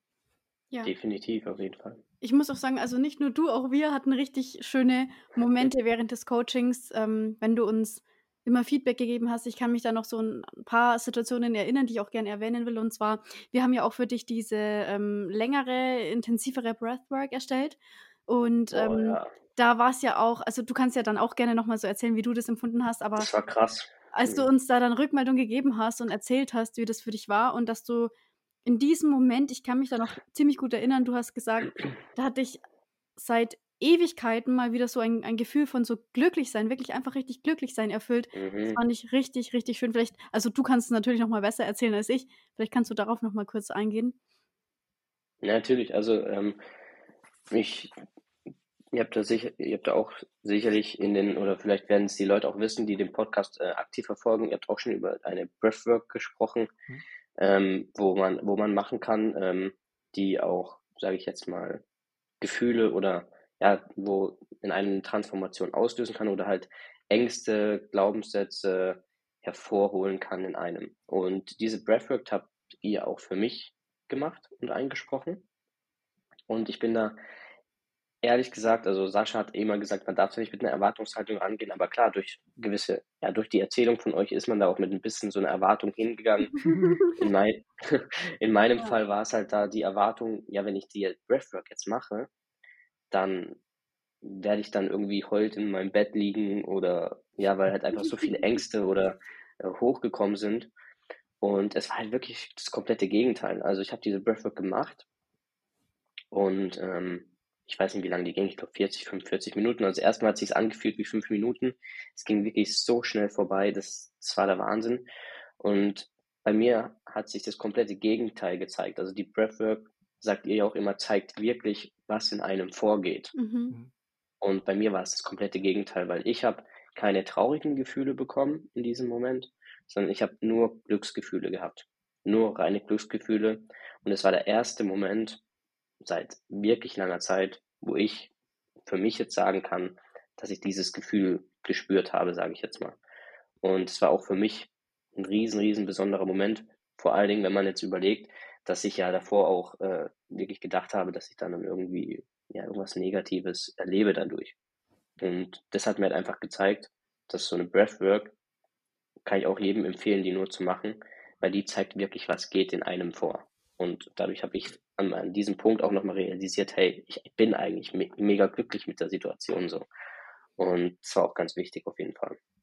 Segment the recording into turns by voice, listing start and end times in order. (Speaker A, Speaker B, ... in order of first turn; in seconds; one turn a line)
Speaker A: 0.8-2.0
Speaker B: 2.2-23.3
Speaker A: 18.7-19.3
Speaker A: 23.2-24.5
Speaker B: 24.1-28.1
Speaker B: 28.7-32.6
Speaker B: 33.2-44.2
Speaker A: 38.3-38.8
Speaker A: 45.4-46.6
Speaker A: 47.5-47.9
Speaker A: 48.9-56.7
Speaker A: 57.4-61.8
Speaker A: 62.4-75.5
Speaker A: 76.5-77.2
Speaker A: 78.2-92.3
Speaker B: 86.6-87.2
Speaker A: 93.1-93.6
Speaker A: 94.2-100.7
Speaker A: 101.4-105.1
Speaker A: 106.3-115.1
Speaker A: 115.6-123.3
Speaker B: 123.4-123.8
Speaker A: 124.4-135.4
Speaker A: 136.0-138.3
Speaker A: 138.9-143.0
Speaker A: 143.6-154.6
Speaker A: 155.2-158.3
Speaker A: 159.3-169.9
Speaker A: 170.6-172.4